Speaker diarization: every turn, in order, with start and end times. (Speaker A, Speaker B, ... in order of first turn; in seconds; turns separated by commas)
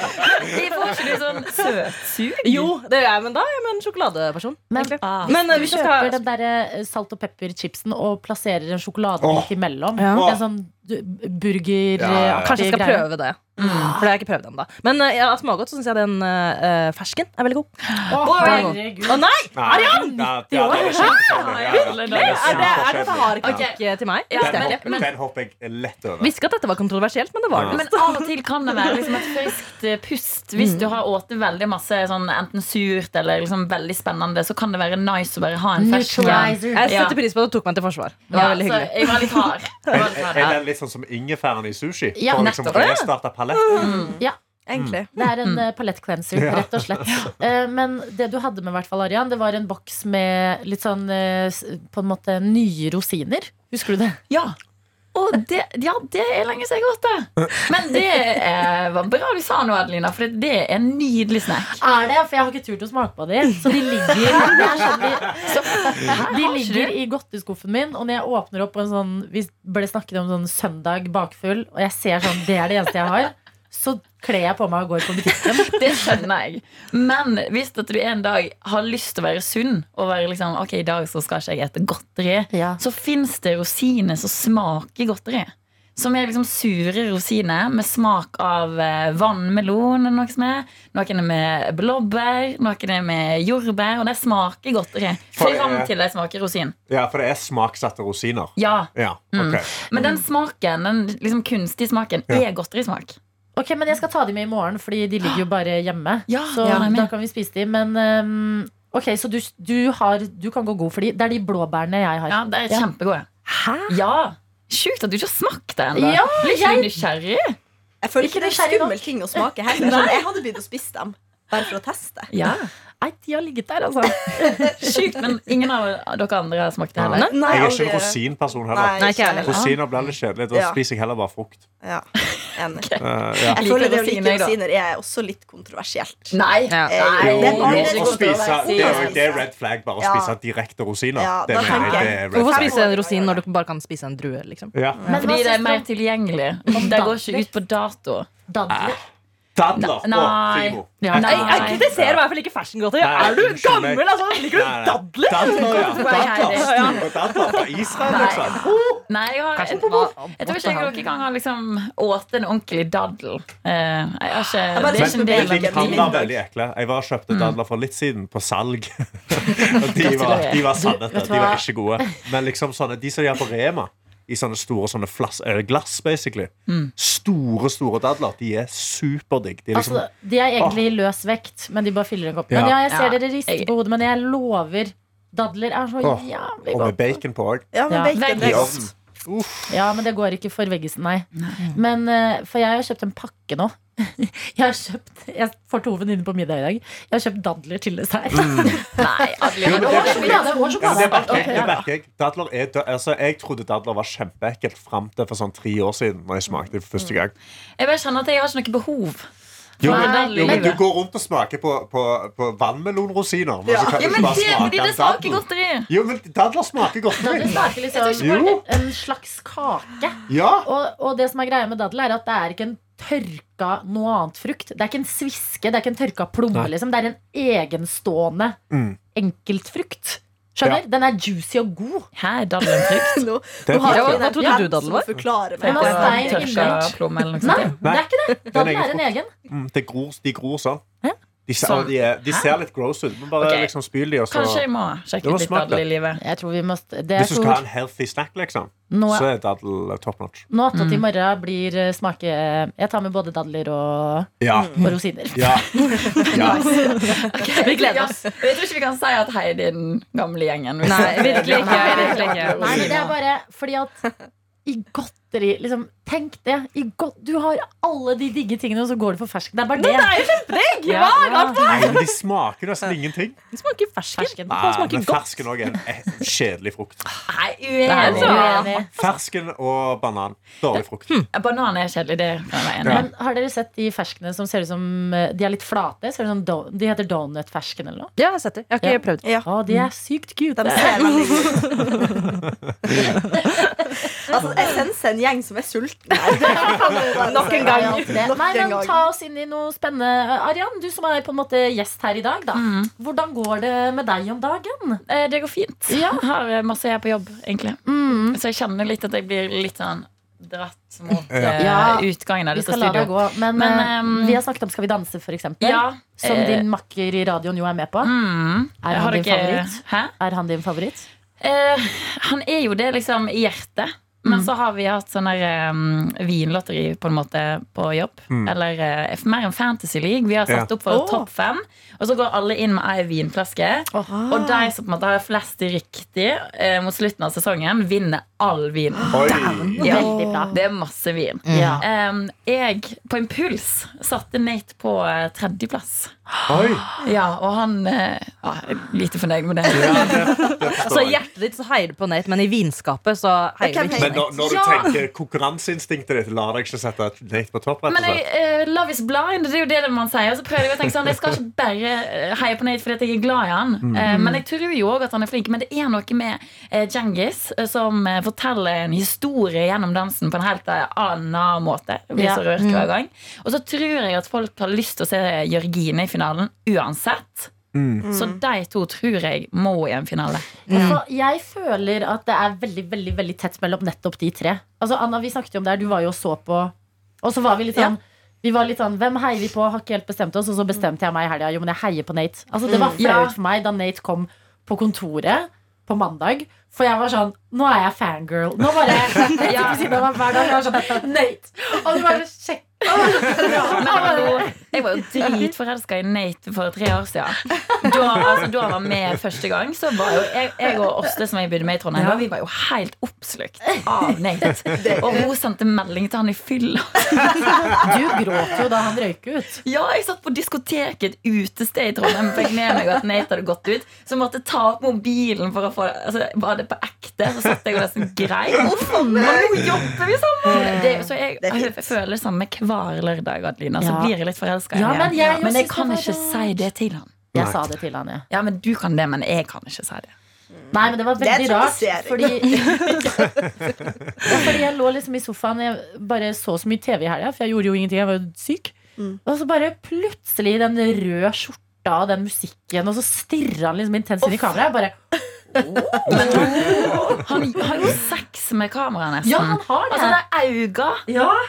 Speaker A: 0.1-2.7, Speaker B: 0.2-0.9, Speaker C: 2.4-6.2, Speaker D: 4.7-14.0, Speaker A: 5.0-5.7, Speaker B: 9.2-9.5, Speaker C: 10.0-10.4, Speaker B: 10.1-10.4, Speaker B: 12.0-12.6, Speaker C: 12.4-17.7, Speaker A: 13.6-14.0, Speaker A: 18.0-18.8, Speaker D: 18.1-21.5, Speaker C: 18.2-20.1, Speaker B: 19.5-23.7, Speaker A: 20.8-25.1, Speaker C: 22.0-25.0, Speaker B: 24.4-26.3, Speaker C: 26.2-28.2, Speaker B: 27.5-27.8, Speaker A: 27.7-37.2, Speaker D: 35.8-36.9, Speaker C: 36.2-40.0, Speaker A: 38.3-40.6, Speaker B: 39.9-43.9, Speaker D: 42.1-42.5, Speaker A: 42.3-43.0, Speaker C: 42.7-44.0, Speaker A: 43.7-44.2, Speaker E: 43.7-44.2, Speaker E: 44.7-45.1, Speaker B: 44.7-45.0, Speaker D: 45.1-54.2, Speaker B: 46.3-47.2, Speaker A: 47.1-47.3, Speaker A: 54.3-54.6, Speaker A: 55.1-61.8, Speaker D: 61.8-76.1, Speaker A: 64.3-67.0, Speaker A: 75.5-96.8, Speaker D: 82.5-82.8, Speaker B: 95.3-95.9, Speaker B: 96.9-100.2, Speaker A: 98.6-103.2, Speaker D: 103.6-112.9, Speaker A: 106.3-107.1, Speaker A: 112.3-113.3, Speaker D: 113.5-114.0, Speaker A: 113.9-117.6, Speaker D: 116.0-117.0, Speaker E: 118.0-122.3, Speaker D: 118.2-119.2, Speaker A: 119.8-120.2, Speaker A: 122.3-122.7, Speaker D: 123.0-125.0, Speaker A: 124.8-127.5, Speaker B: 127.0-131.7, Speaker C: 127.0-127.6, Speaker E: 127.3-129.7, Speaker C: 129.0-129.6, Speaker A: 129.5-129.8, Speaker E: 130.5-130.8, Speaker E: 131.8-132.9, Speaker A: 132.7-134.6, Speaker B: 133.0-133.6, Speaker E: 133.5-136.3, Speaker A: 136.3-139.4, Speaker C: 136.7-136.9, Speaker E: 136.9-139.5, Speaker B: 137.2-142.8, Speaker E: 140.0-140.4, Speaker E: 141.2-143.4, Speaker A: 141.7-142.1, Speaker C: 142.3-144.7, Speaker B: 144.7-145.1, Speaker E: 144.9-145.3, Speaker D: 145.1-145.9, Speaker A: 145.1-148.3, Speaker D: 146.7-147.5, Speaker D: 148.5-149.0, Speaker B: 148.7-149.0, Speaker B: 149.6-152.2, Speaker A: 149.8-151.9, Speaker D: 151.0-151.6, Speaker C: 151.2-157.7, Speaker B: 153.0-158.7, Speaker A: 155.6-166.2, Speaker C: 159.6-161.0, Speaker E: 164.7-166.4, Speaker B: 164.9-180.0, Speaker A: 167.3-167.6, Speaker A: 169.9-170.9, Speaker D: 170.8-172.1, Speaker A: 176.7-176.9, Speaker D: 179.7-187.2, Speaker B: 182.5-182.8, Speaker A: 182.9-183.7, Speaker B: 186.0-187.7, Speaker E: 187.7-188.9, Speaker D: 187.9-188.2, Speaker A: 188.1-188.8, Speaker B: 188.4-189.8, Speaker D: 189.7-199.0, Speaker A: 191.4-191.7, Speaker B: 198.3-198.8, Speaker A: 198.8-201.6, Speaker D: 199.6-201.7, Speaker B: 199.6-207.3, Speaker E: 201.3-201.8, Speaker A: 207.8-209.3, Speaker A: 209.8-210.9, Speaker B: 209.8-217.6, Speaker D: 209.8-210.8, Speaker E: 213.7-214.6, Speaker A: 213.9-215.9, Speaker D: 217.2-228.6, Speaker A: 217.4-218.6, Speaker B: 218.2-218.6, Speaker B: 220.3-220.7, Speaker B: 228.7-229.0, Speaker D: 229.1-232.1, Speaker A: 232.2-233.3, Speaker E: 232.6-236.8, Speaker B: 233.7-234.4, Speaker C: 233.8-235.1, Speaker A: 235.6-237.8, Speaker D: 235.6-239.3, Speaker B: 237.8-240.8, Speaker B: 241.5-244.6, Speaker A: 241.6-242.6, Speaker A: 243.4-243.7, Speaker A: 244.3-246.2, Speaker B: 245.2-245.8, Speaker D: 246.2-247.6, Speaker B: 247.2-250.5, Speaker D: 248.9-249.3, Speaker D: 250.5-257.0, Speaker A: 250.7-251.0, Speaker B: 254.4-254.8, Speaker E: 254.5-254.9, Speaker B: 255.3-257.0, Speaker E: 255.8-256.5, Speaker A: 256.5-263.1, Speaker C: 257.5-258.2, Speaker C: 260.8-262.9, Speaker B: 261.0-263.0, Speaker D: 261.5-263.9, Speaker D: 264.7-271.7, Speaker C: 269.8-272.1, Speaker B: 271.6-273.4, Speaker C: 273.5-275.4, Speaker D: 274.2-274.6, Speaker B: 274.5-277.0, Speaker A: 277.3-278.9, Speaker C: 277.9-278.7, Speaker D: 277.9-278.9, Speaker B: 278.0-281.2, Speaker A: 281.3-283.1, Speaker B: 282.8-283.1, Speaker D: 282.9-288.1, Speaker C: 288.2-289.9, Speaker D: 288.8-291.6, Speaker E: 290.6-292.2, Speaker E: 292.9-293.2, Speaker E: 294.3-299.1, Speaker D: 296.3-305.0, Speaker C: 297.1-298.3, Speaker A: 302.5-302.9, Speaker A: 305.1-314.4, Speaker D: 305.9-306.2, Speaker D: 307.9-308.4, Speaker B: 311.3-311.8, Speaker D: 311.6-318.1, Speaker A: 315.6-316.7, Speaker A: 318.0-320.1, Speaker D: 318.8-321.1, Speaker A: 321.4-350.6, Speaker B: 328.3-328.5, Speaker E: 330.9-331.3, Speaker E: 334.1-334.7, Speaker B: 339.1-339.9, Speaker D: 339.8-340.6, Speaker E: 339.8-340.5, Speaker C: 341.5-341.8, Speaker D: 341.5-341.9, Speaker B: 346.5-346.9, Speaker B: 349.7-351.2, Speaker C: 350.4-354.3, Speaker E: 353.6-354.9, Speaker B: 354.0-358.2, Speaker A: 357.9-377.6, Speaker B: 363.8-364.2, Speaker D: 364.1-364.4, Speaker D: 372.1-372.4, Speaker B: 377.7-378.1, Speaker E: 378.1-378.4, Speaker A: 378.1-380.6, Speaker C: 380.7-381.0, Speaker D: 380.7-405.5, Speaker E: 392.7-393.0, Speaker A: 393.0-393.4, Speaker A: 399.4-400.3, Speaker A: 402.9-417.5, Speaker D: 412.0-412.3, Speaker E: 414.7-415.3, Speaker D: 417.8-419.6, Speaker A: 419.6-437.1, Speaker E: 428.6-429.7, Speaker E: 430.5-431.9, Speaker D: 433.8-434.1, Speaker D: 434.7-436.4, Speaker E: 435.1-435.4, Speaker B: 437.3-437.7, Speaker D: 437.3-438.2, Speaker A: 438.3-440.1, Speaker E: 440.5-443.5, Speaker D: 440.7-443.3, Speaker D: 444.2-454.9, Speaker D: 455.9-457.2, Speaker A: 456.1-461.1, Speaker D: 459.2-460.2, Speaker D: 461.1-461.4